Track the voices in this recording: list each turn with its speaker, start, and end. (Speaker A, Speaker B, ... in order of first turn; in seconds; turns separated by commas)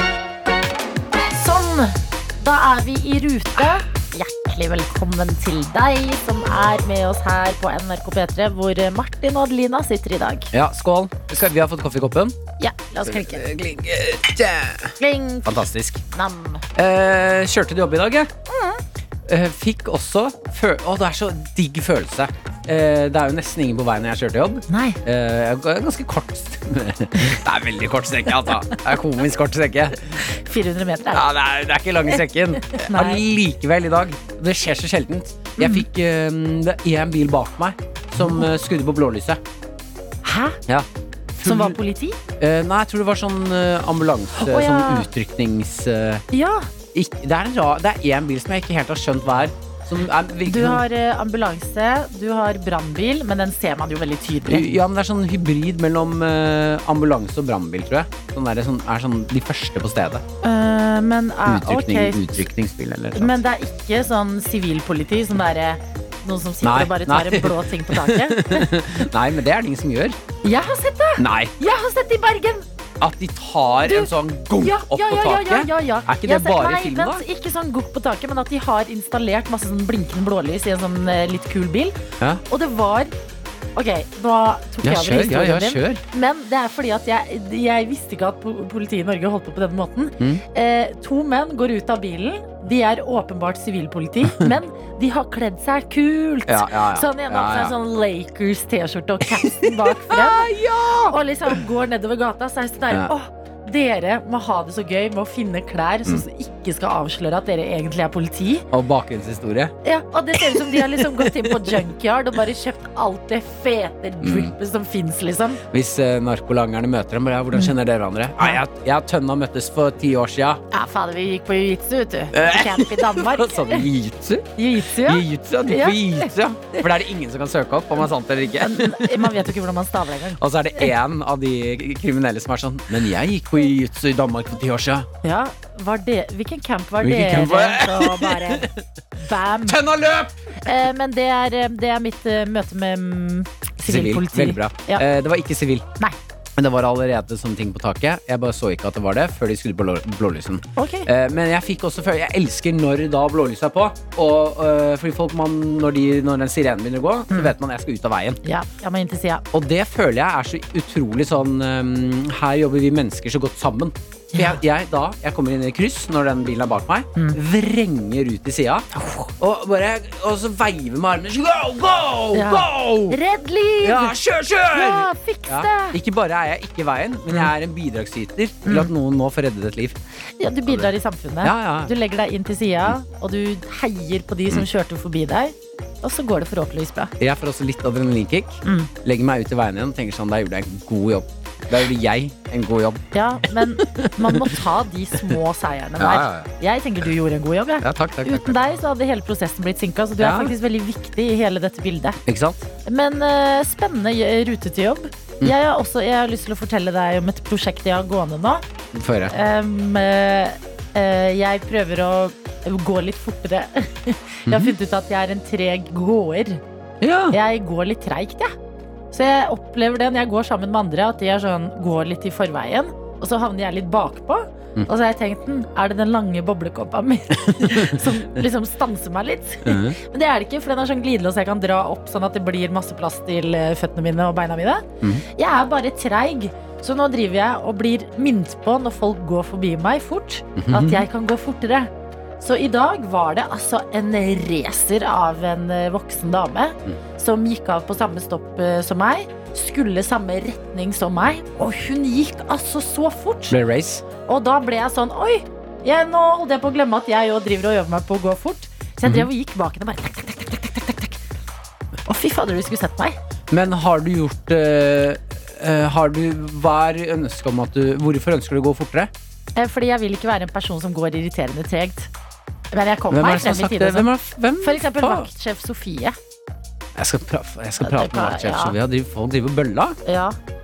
Speaker A: 1.3-10.5, Speaker B: 10.5-12.3, Speaker A: 12.6-13.4, Speaker B: 13.0-16.0, Speaker A: 15.0-16.6, Speaker B: 16.7-18.3, Speaker A: 18.5-18.8, Speaker B: 19.2-30.2, Speaker A: 24.7-25.0, Speaker A: 30.1-31.2, Speaker B: 31.1-39.4, Speaker A: 32.1-33.2, Speaker A: 35.6-35.8, Speaker A: 38.2-38.5, Speaker A: 40.2-40.6, Speaker B: 40.7-41.8, Speaker A: 41.4-42.2, Speaker B: 42.4-46.2, Speaker A: 44.3-45.1, Speaker A: 46.3-46.7, Speaker B: 46.9-50.8, Speaker A: 50.5-54.7, Speaker B: 54.4-60.2, Speaker A: 60.4-62.4, Speaker B: 61.5-63.4, Speaker A: 63.1-68.7, Speaker B: 66.6-70.2, Speaker A: 70.4-72.7, Speaker B: 71.2-71.5, Speaker B: 73.0-77.2, Speaker A: 73.8-83.1, Speaker A: 83.7-100.5, Speaker B: 84.8-86.0, Speaker B: 94.2-94.5, Speaker B: 96.5-97.7, Speaker B: 99.3-101.5, Speaker A: 101.1-108.7, Speaker B: 108.7-109.7, Speaker A: 109.8-115.6, Speaker B: 110.3-111.9, Speaker B: 114.2-114.5, Speaker B: 115.7-120.6, Speaker A: 120.7-123.8, Speaker B: 122.3-129.5, Speaker A: 124.6-126.8, Speaker A: 128.6-130.9, Speaker B: 130.4-135.1, Speaker A: 135.2-139.8, Speaker B: 137.0-138.8, Speaker B: 139.7-140.3, Speaker A: 140.6-145.0, Speaker B: 143.8-145.8, Speaker B: 146.6-158.4, Speaker A: 150.8-151.1, Speaker A: 158.4-159.4, Speaker B: 159.5-168.9, Speaker A: 164.3-164.6, Speaker A: 168.9-169.3, Speaker B: 169.4-173.2, Speaker A: 172.3-174.2, Speaker B: 173.8-180.0, Speaker A: 174.7-176.0, Speaker A: 178.6-178.9, Speaker A: 180.4-187.1, Speaker B: 180.7-181.9, Speaker B: 187.2-194.6, Speaker A: 188.6-188.9, Speaker A: 193.1-202.2, Speaker B: 196.0-196.5, Speaker B: 197.8-198.6, Speaker B: 200.2-200.5, Speaker B: 202.2-202.7, Speaker A: 202.8-208.6, Speaker B: 208.9-209.3, Speaker A: 209.3-216.6, Speaker B: 214.4-214.7, Speaker B: 217.0-217.4, Speaker A: 217.3-218.5, Speaker A: 219.1-253.6, Speaker B: 227.5-228.4, Speaker B: 229.6-230.0, Speaker B: 240.6-241.0, Speaker B: 253.5-254.0, Speaker A: 254.2-261.2, Speaker B: 259.0-259.3, Speaker A: 262.1-263.1, Speaker B: 263.5-269.1, Speaker A: 269.5-272.1, Speaker A: 272.7-274.1, Speaker B: 273.1-275.3, Speaker A: 274.6-276.2, Speaker B: 276.9-280.0, Speaker A: 277.8-278.8, Speaker A: 280.1-280.4